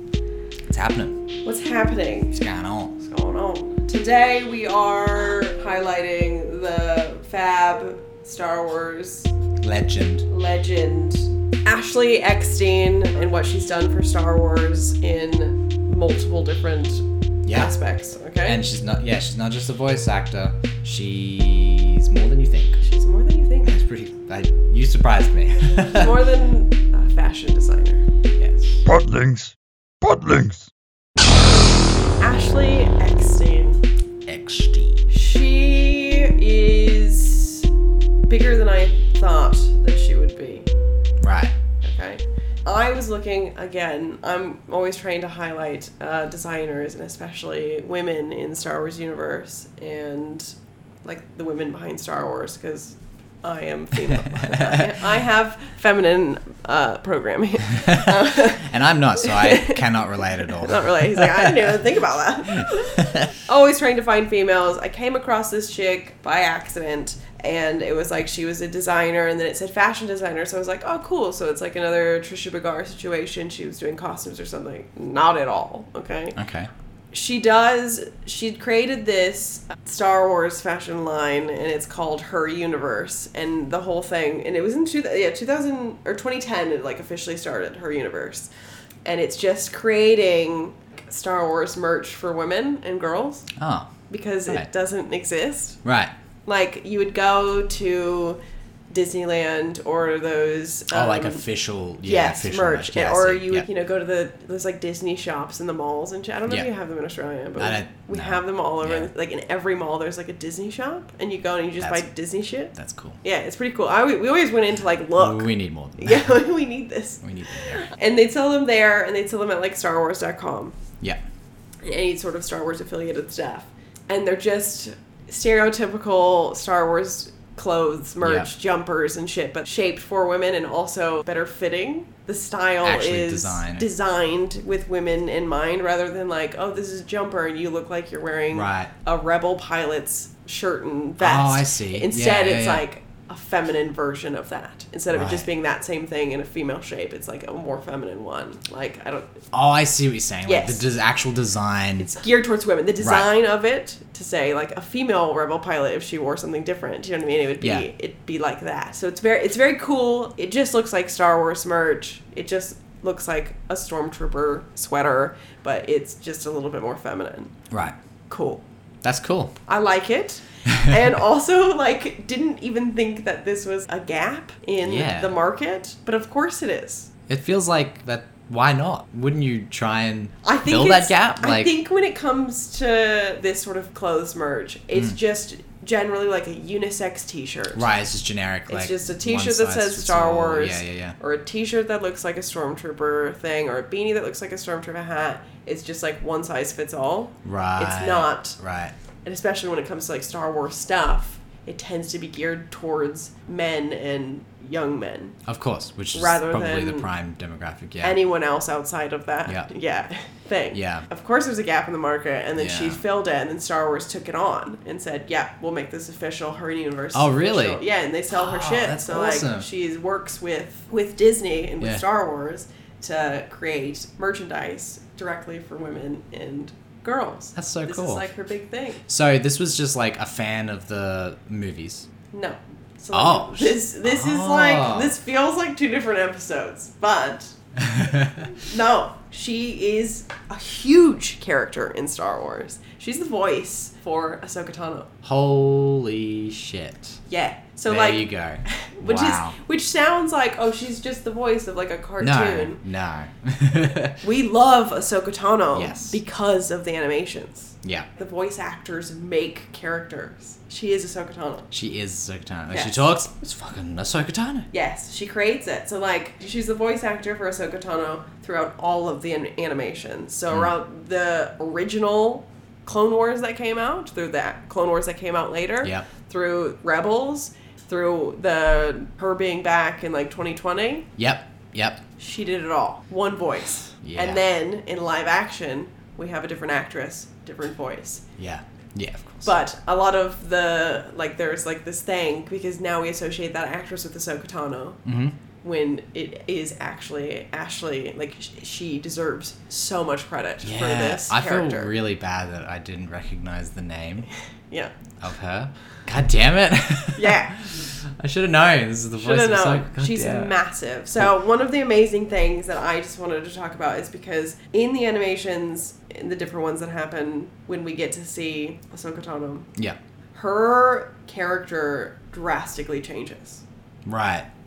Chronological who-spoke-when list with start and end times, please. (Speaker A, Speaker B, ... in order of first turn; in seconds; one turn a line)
Speaker A: 0.7-1.2
Speaker B: 1.4-2.4
Speaker A: 2.3-3.0
Speaker B: 3.0-9.3
Speaker A: 9.6-10.3
Speaker B: 10.3-18.6
Speaker A: 17.4-17.7
Speaker A: 18.4-22.8
Speaker B: 22.8-23.7
Speaker A: 23.6-26.3
Speaker B: 25.9-28.0
Speaker A: 28.4-28.9
Speaker B: 32.2-33.8
Speaker A: 34.3-35.0
Speaker B: 35.1-37.7
Speaker B: 38.2-40.7
Speaker A: 41.2-41.5
Speaker B: 41.8-76.4
Speaker A: 54.3-54.9
Speaker A: 57.8-61.8
Speaker A: 62.6-63.4
Speaker A: 76.4-76.7
Speaker B: 77.1-88.5
Speaker B: 89.0-93.5
Speaker A: 93.6-93.9
Speaker B: 94.1-95.8
Speaker A: 95.8-96.1
Speaker B: 96.5-98.4
Speaker B: 98.9-101.4
Speaker A: 100.9-103.7
Speaker B: 102.0-120.8
Speaker A: 107.6-109.1
Speaker A: 111.8-112.1
Speaker A: 112.7-113.2
Speaker A: 115.2-116.4
Speaker A: 117.2-117.9
Speaker B: 121.8-149.3
Speaker A: 128.2-128.5
Speaker A: 132.8-133.9
Speaker A: 138.5-138.9
Speaker A: 141.2-142.8
Speaker A: 145.1-145.5
Speaker A: 149.5-152.2
Speaker B: 150.5-150.9
Speaker B: 152.0-167.5
Speaker A: 153.0-153.3
Speaker A: 157.6-157.9
Speaker A: 167.7-168.0
Speaker B: 168.3-168.6
Speaker A: 169.0-169.6
Speaker B: 169.7-177.1
Speaker A: 174.8-175.3
Speaker A: 177.3-181.7
Speaker B: 180.4-187.9
Speaker A: 187.8-191.2
Speaker B: 188.7-198.6
Speaker A: 197.4-198.9
Speaker B: 199.2-205.4
Speaker A: 205.5-208.2
Speaker B: 206.1-207.1
Speaker B: 208.0-229.0
Speaker A: 210.7-211.1
Speaker A: 212.6-213.0
Speaker A: 217.1-219.7
Speaker A: 227.6-228.3
Speaker A: 229.1-232.1
Speaker B: 232.3-237.6
Speaker A: 233.1-235.1
Speaker A: 237.8-238.5
Speaker B: 238.5-245.1
Speaker A: 245.2-247.2
Speaker B: 247.3-252.8
Speaker A: 247.9-249.6
Speaker A: 252.2-254.2
Speaker B: 254.2-261.7
Speaker A: 255.7-256.2
Speaker A: 261.7-264.7
Speaker B: 262.7-263.1
Speaker B: 264.7-281.1
Speaker A: 275.8-276.1
Speaker A: 281.2-282.0
Speaker B: 282.2-288.2
Speaker A: 284.0-284.4
Speaker A: 288.4-289.6
Speaker B: 289.4-295.0
Speaker A: 295.1-295.4
Speaker B: 295.6-301.9
Speaker A: 300.6-304.3
Speaker A: 305.2-310.6
Speaker B: 307.2-307.6
Speaker B: 309.2-319.7
Speaker B: 320.3-323.6
Speaker A: 324.1-324.5